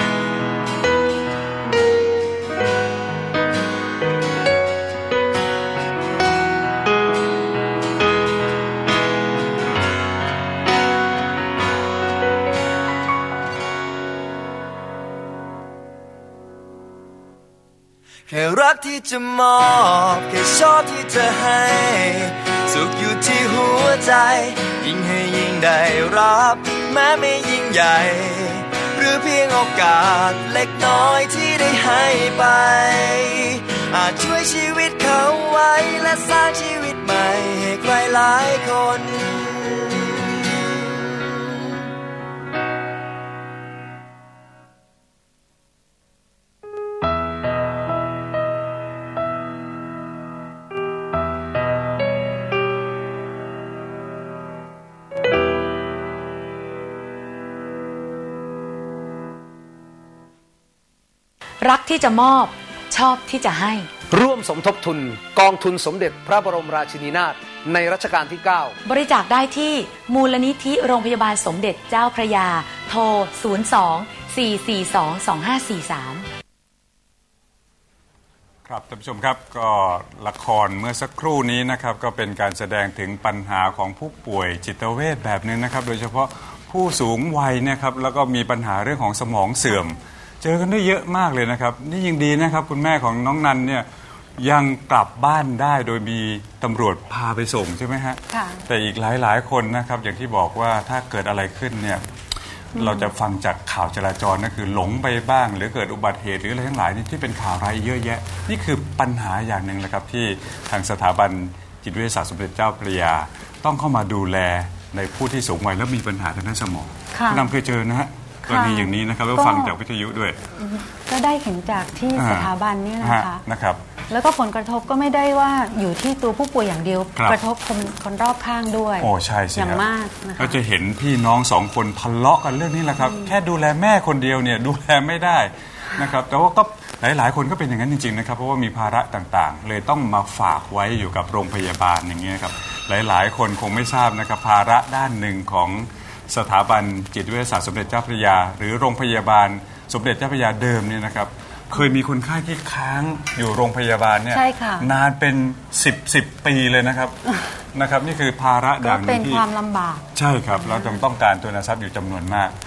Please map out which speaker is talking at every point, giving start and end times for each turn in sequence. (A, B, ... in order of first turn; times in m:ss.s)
0:18.3-0:40.7 A
1:01.6-1:03.9 B
1:04.1-1:08.8 C
1:08.8-1:16.2 B
1:18.6-1:33.9 D
1:34.4-1:42.0 D
1:38.3-1:38.6 E
1:42.8-2:00.4 D
1:57.1-1:57.4 E
1:58.5-1:59.7 E
2:00.6-2:03.4 E
2:02.1-2:03.8 D
2:04.1-2:10.6 E
2:07.1-2:07.4 D
2:09.0-2:37.2 D
2:13.0-2:13.3 E
2:34.3-2:34.9 E
2:37.7-2:39.5 D
2:38.8-2:40.0 E
2:40.1-2:42.5 D
2:40.6-2:40.9 E